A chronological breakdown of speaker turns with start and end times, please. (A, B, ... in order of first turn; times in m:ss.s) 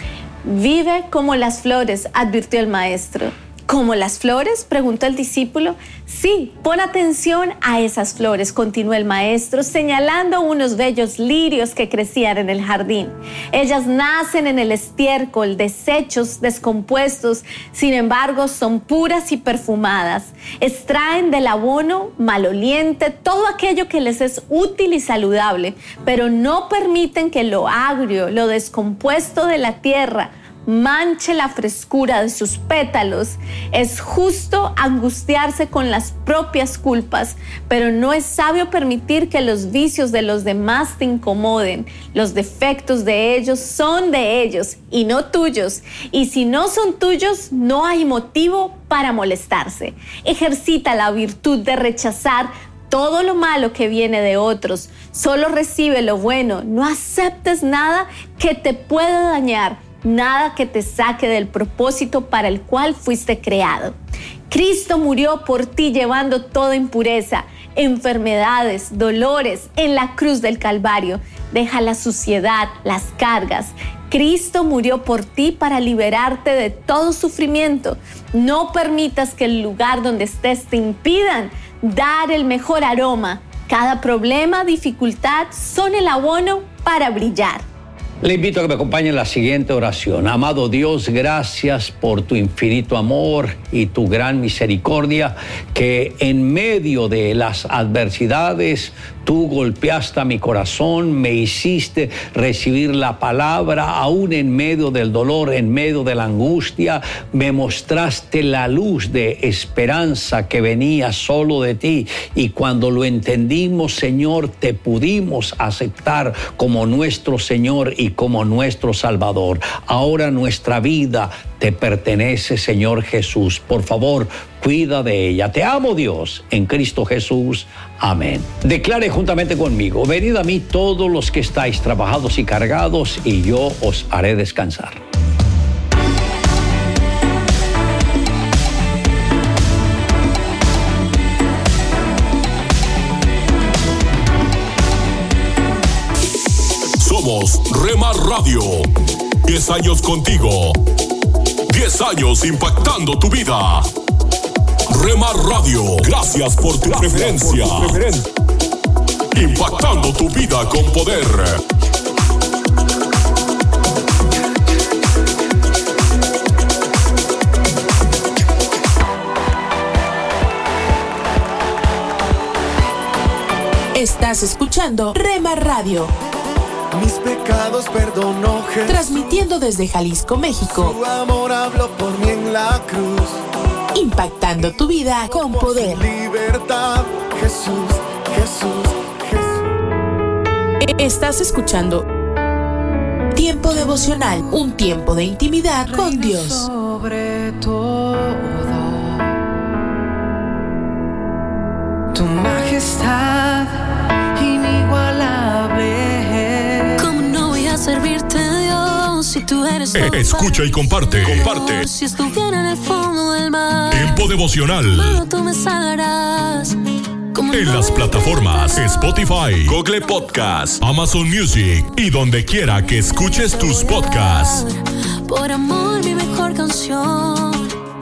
0:00.4-1:03.9 A
1:04.5-1:27.6 A
1:28.2-2:15.0 B
2:27.0-2:28.9 C
2:29.4-2:30.8 C
2:31.7-2:33.9 C
2:34.9-2:38.2 C
2:39.3-2:41.6 C
2:53.9-2:56.1 D
2:58.8-3:01.0 D
3:01.1-3:03.2 E
3:03.9-3:06.1 D
3:06.2-3:07.0 E
3:10.8-3:12.1 D
3:13.3-3:16.7 D
3:26.9-3:34.3 F
3:29.9-3:31.9 C
3:33.9-3:35.2 C
3:34.9-3:36.8 F
3:37.3-3:38.8 F
3:37.5-3:44.6 C
3:43.6-3:44.7 F
3:45.3-3:47.6 F